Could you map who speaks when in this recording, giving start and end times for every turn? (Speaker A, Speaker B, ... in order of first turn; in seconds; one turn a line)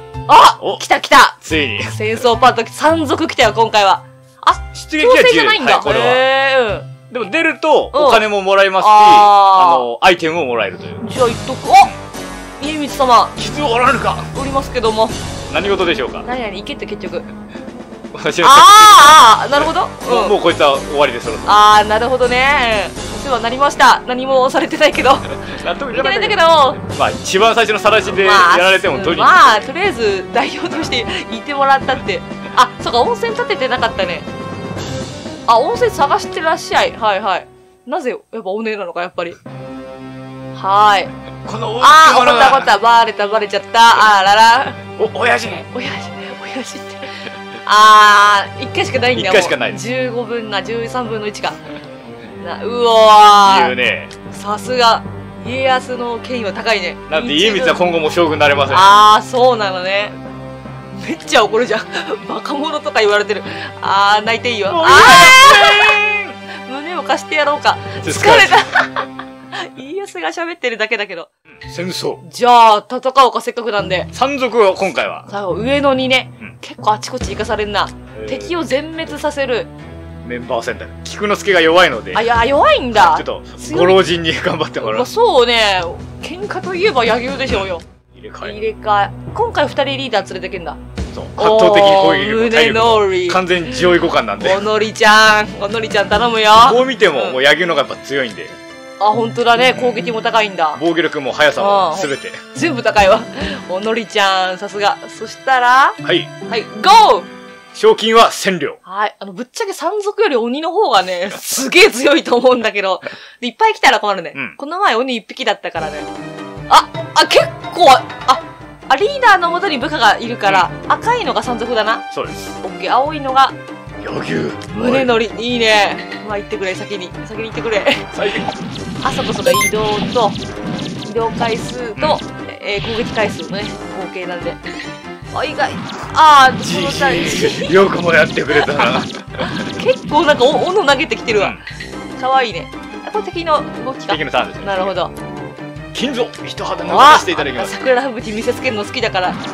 Speaker A: 0.3-6.9
Speaker B: 1.4-2.0
Speaker B: 4.7-6.3
Speaker B: 7.1-11.0
Speaker A: 7.9-8.2
Speaker A: 8.8-9.9
Speaker A: 11.0-11.9
Speaker A: 12.6-13.4
Speaker B: 13.4-14.3
Speaker A: 14.3-15.2
Speaker B: 15.5-16.3
Speaker A: 16.2-17.3
Speaker B: 18.1-21.6
Speaker A: 18.4-20.4
Speaker A: 21.5-26.8
Speaker B: 25.5-29.6
Speaker A: 28.1-34.3
Speaker A: 35.5-39.4
Speaker A: 40.5-41.1
Speaker B: 41.5-42.7
Speaker A: 41.8-44.8
Speaker B: 45.0-45.7
Speaker A: 45.7-51.6
Speaker B: 49.1-49.8
Speaker A: 52.4-57.9
Speaker B: 53.4-54.1
Speaker B: 57.1-58.9
Speaker A: 58.7-60.2
Speaker A: 60.9-71.3
Speaker B: 64.7-66.4
Speaker B: 68.0-68.7
Speaker B: 71.5-72.2
Speaker A: 72.2-74.1
Speaker B: 74.1-75.3
Speaker A: 75.3-79.7
Speaker B: 78.2-78.6
Speaker B: 80.2-82.3
Speaker A: 82.1-84.0
Speaker B: 82.9-85.1
Speaker A: 84.8-87.8
Speaker B: 88.1-88.6
Speaker A: 88.4-90.8
Speaker B: 91.1-94.7
Speaker A: 91.4-97.4
Speaker B: 96.6-98.6
Speaker A: 99.0-100.8
Speaker B: 100.8-102.4
Speaker A: 101.6-107.3
Speaker B: 106.0-106.3
Speaker B: 107.7-108.8
Speaker A: 108.8-116.1
Speaker B: 114.3-114.6
Speaker A: 116.7-122.0
Speaker B: 122.1-122.4
Speaker A: 122.6-123.6
Speaker B: 124.0-125.1
Speaker A: 124.7-128.1
Speaker B: 128.1-128.5
Speaker A: 129.0-130.4
Speaker A: 131.0-134.6
Speaker B: 132.0-132.2
Speaker A: 135.3-137.8
Speaker B: 136.6-139.8
Speaker A: 138.6-141.6
Speaker B: 141.3-141.6
Speaker A: 142.2-145.1
Speaker B: 144.1-145.0
Speaker B: 145.9-147.8
Speaker A: 146.8-149.4